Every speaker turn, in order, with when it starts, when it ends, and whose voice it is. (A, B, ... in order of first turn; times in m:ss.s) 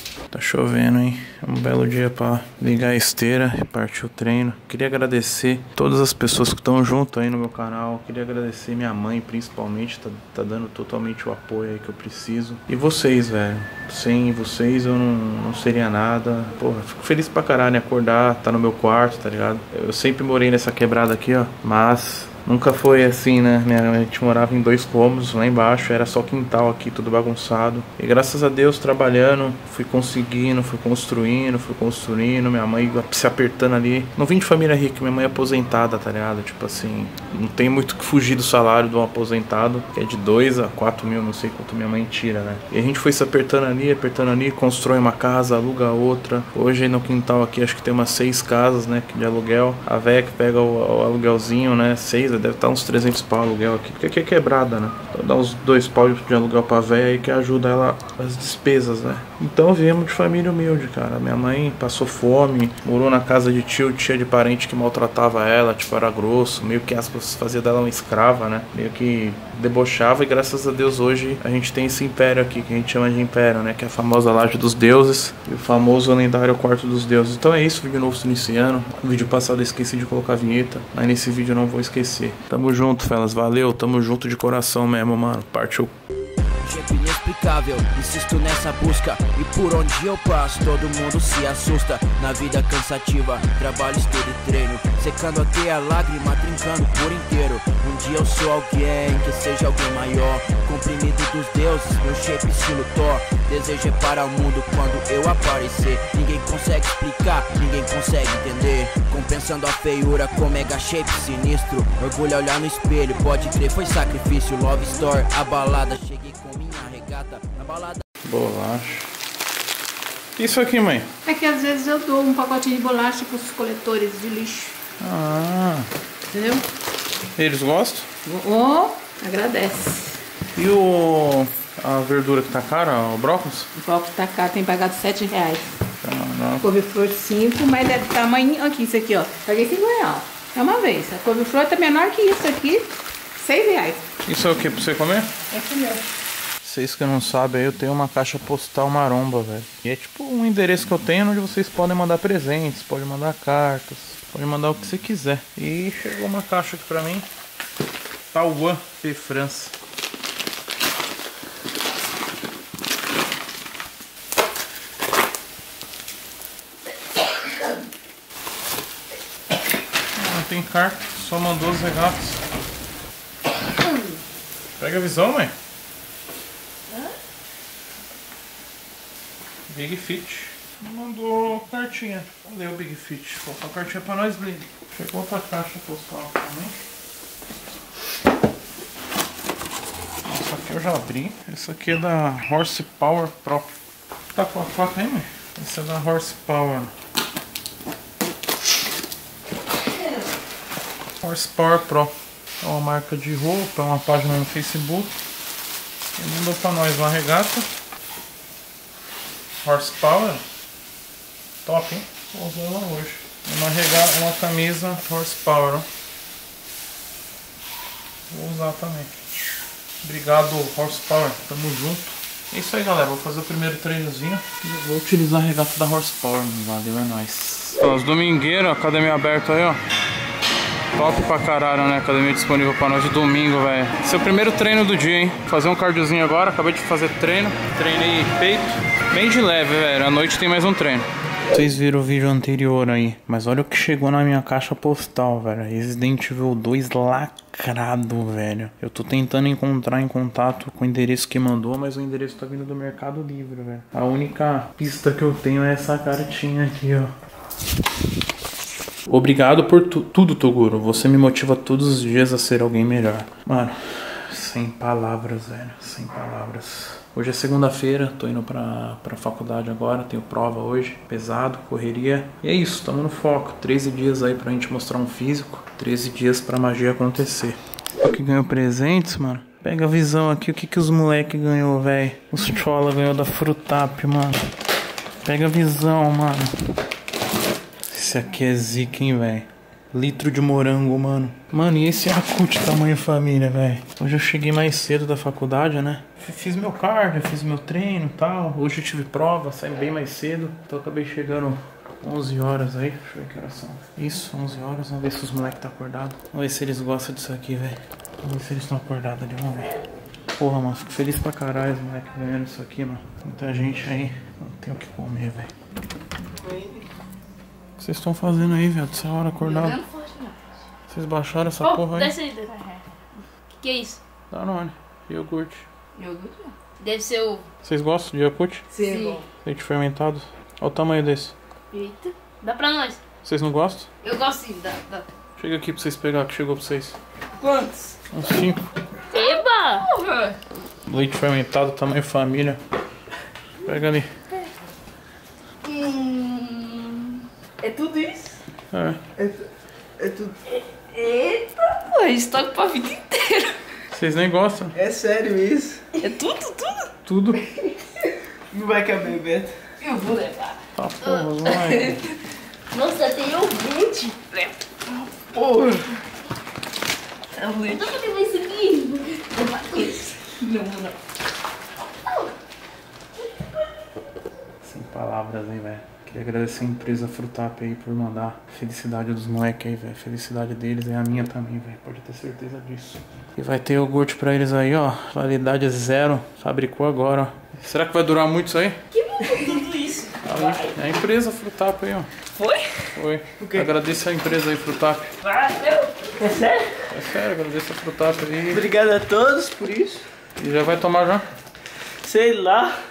0:00.3-1:25.9 A
1:26.6-1:58.0 B
1:58.2-1:59.1 A
2:00.4-2:01.1 A
2:01.2-2:04.8 C
2:05.0-2:05.9 A
2:06.3-2:06.6 C
2:07.3-2:08.1 A
2:08.2-2:10.2 C
2:10.5-2:13.7 A
2:13.8-2:15.7 C
2:16.0-2:16.7 A
2:16.6-2:24.0 C
2:24.2-2:25.3 A
2:25.5-2:26.0 C
2:26.6-2:37.3 A
2:38.3-2:39.7 A
2:50.1-2:52.4 A
2:54.8-2:55.5 A
2:59.7-3:06.8 A
3:10.2-3:13.7 A
3:14.3-3:16.9 A
3:21.2-3:25.1 A
3:26.2-3:27.7 A
3:29.6-3:30.4 A
3:31.6-3:35.9 A
3:38.3-3:39.1 A
3:40.0-3:49.8 A
3:50.9-4:17.1 A
4:19.0-4:44.5 A
4:45.2-4:46.8 A
4:47.8-5:09.8 A
5:10.4-5:15.5 A
5:17.8-5:19.8 A
5:19.4-5:20.3 D
5:20.9-5:22.2 A
5:21.6-5:22.8 D
5:23.6-5:24.0 D
5:24.3-5:25.6 A
5:26.0-5:27.4 D
5:27.6-5:28.7 A
5:28.7-5:29.2 D
5:29.4-5:31.3 A
5:31.7-5:33.0 D
5:33.2-5:33.9 A
5:34.0-5:35.0 D
5:35.4-5:37.0 A
5:37.4-5:37.9 D
5:38.1-5:38.7 A
5:39.1-5:40.4 D
5:40.8-5:42.6 A
5:43.6-5:44.1 A
5:45.6-5:48.4 D
5:48.7-5:49.0 A
5:50.0-5:50.3 E
5:50.9-5:53.6 D
5:53.9-5:54.8 A
5:54.8-5:55.8 E
5:56.0-5:56.9 D
5:57.0-5:57.5 A
5:58.5-5:59.5 E
5:59.8-6:02.1 D
6:00.7-6:02.0 A
6:02.7-6:04.5 D
6:05.4-6:05.8 A
6:07.3-6:10.9 D
6:14.6-6:28.8 A
6:29.2-6:30.1 D
6:30.2-6:32.1 A
6:32.4-6:32.7 D
6:32.9-6:35.1 A
6:35.3-6:35.9 D
6:36.2-6:36.6 E
6:36.8-6:38.7 A
6:38.5-6:40.0 E
6:40.4-6:41.3 A
6:42.0-6:42.8 E